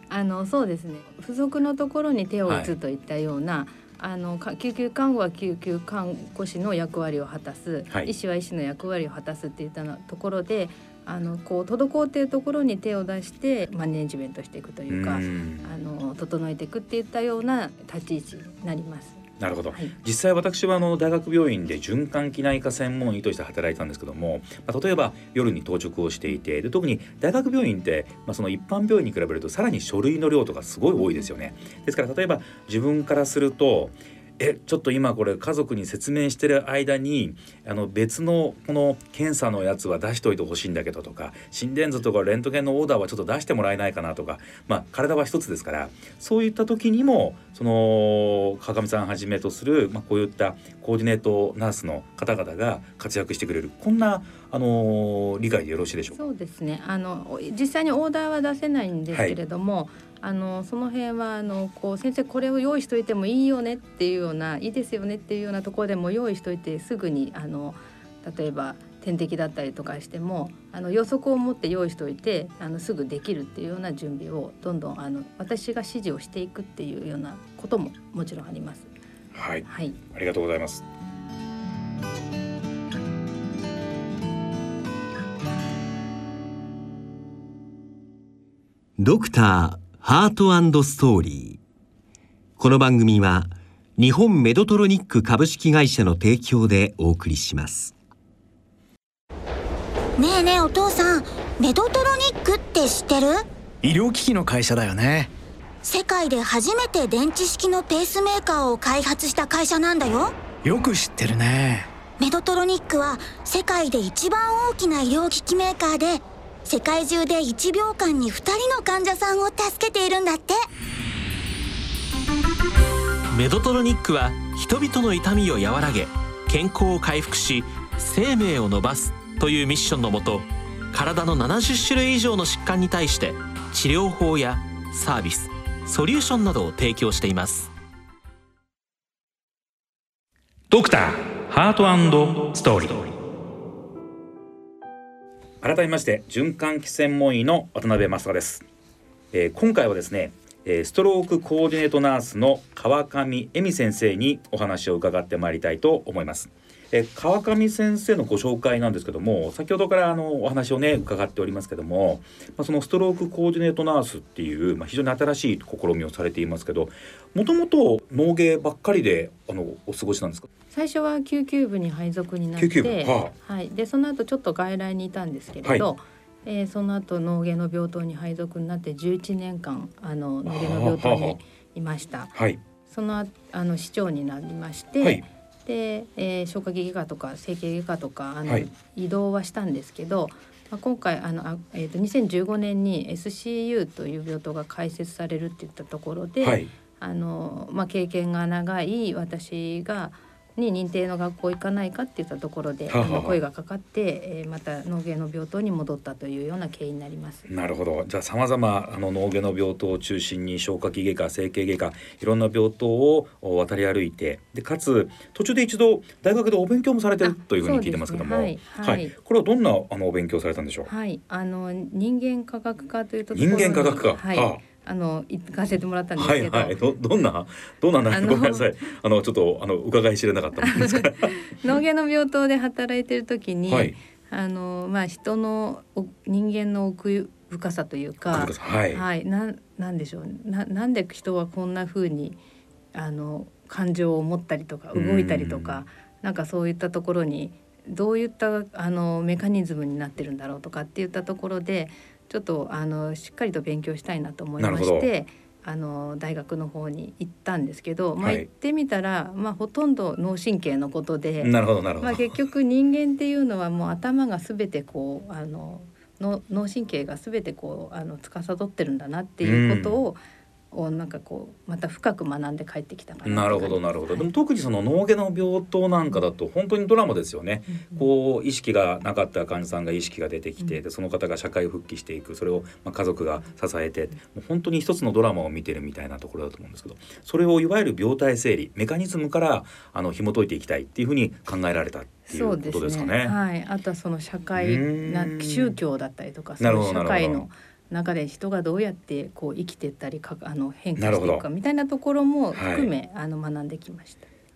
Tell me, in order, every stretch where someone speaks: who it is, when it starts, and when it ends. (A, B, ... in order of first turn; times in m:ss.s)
0:00.1-0:19.9 A
0:02.5-0:02.7 B
0:14.9-0:15.7 B
0:19.4-0:56.2 B
0:56.1-1:18.9 A
0:59.1-0:59.4 B
1:19.3-1:20.8 B
1:19.7-1:20.0 A
1:29.0-1:31.6 C
1:32.6-1:38.0 C
1:40.2-1:43.4 D
1:43.8-1:45.3 E
1:45.8-1:50.3 D
1:50.6-1:51.9 E
1:52.2-2:00.6 D
2:03.3-2:17.7 F
2:20.7-2:23.1 B
2:25.6-2:28.6 B
2:29.3-2:50.5 B
2:50.7-3:02.3 A
2:52.6-2:53.3 B
3:00.5-3:01.4 B
3:02.3-3:02.6 B
3:02.9-3:27.5 A
3:16.4-3:16.7 B
3:22.9-3:23.4 B
3:27.5-3:40.9 B
3:37.2-3:39.1 A
3:40.9-3:46.8 A
3:43.3-3:44.6 B
3:46.2-3:51.4 B
3:48.1-3:48.7 A
3:50.6-4:02.4 A
3:53.7-3:54.0 B
3:58.3-3:59.0 B
4:02.9-4:30.2 A
4:04.9-4:05.8 B
4:14.6-4:15.1 B
4:18.2-4:18.5 B
4:21.4-4:22.3 B
4:29.4-4:30.0 B
4:30.7-4:34.3 A
4:33.2-4:53.4 B
4:52.3-5:04.3 A
4:54.6-4:55.8 B
4:56.6-4:57.4 B
5:01.0-5:01.4 B
5:02.5-5:02.9 B